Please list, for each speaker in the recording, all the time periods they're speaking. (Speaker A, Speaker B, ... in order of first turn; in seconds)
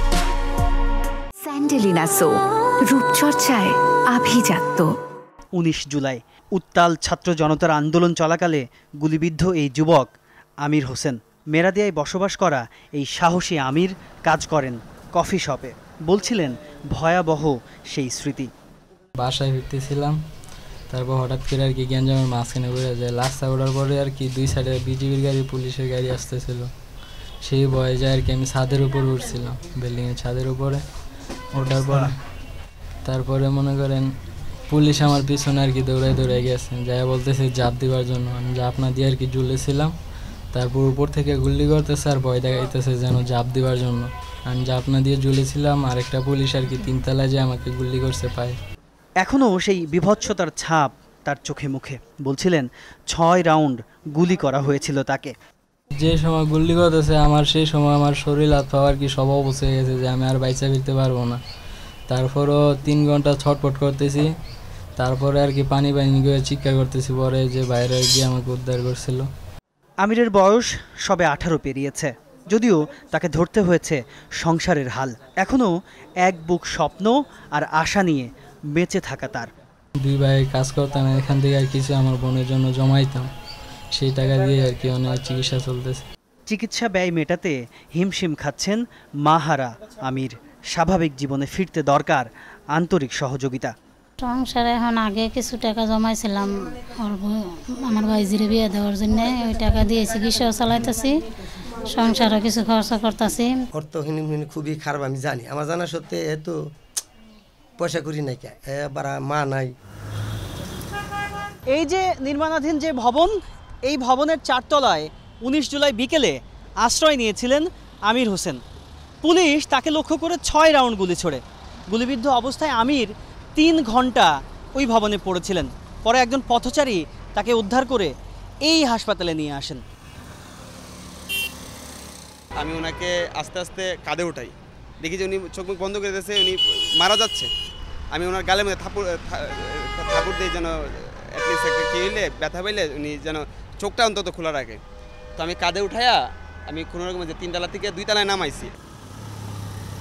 Speaker A: 1.4-4.9
Speaker B: 5.5-10.1, 10.6-18.5, 49.2-55.3, 70.0-75.7, 76.2-79.5, 86.5-93.7, 111.7-118.6, 119.2-128.1, 128.6-129.8
Speaker C: 19.2-20.2, 20.9-26.7, 27.4-30.8, 31.5-32.1, 33.0-34.1, 34.7-39.9, 40.5-48.6, 56.0-61.4, 62.1-64.3, 65.0-69.3, 80.0-83.3, 83.9-86.0
Speaker D: 94.2-97.3, 97.8-101.1, 101.8-103.5
Speaker E: 103.8-106.6, 107.8-109.7
Speaker F: 132.6-137.5, 138.1-144.8, 145.4-148.7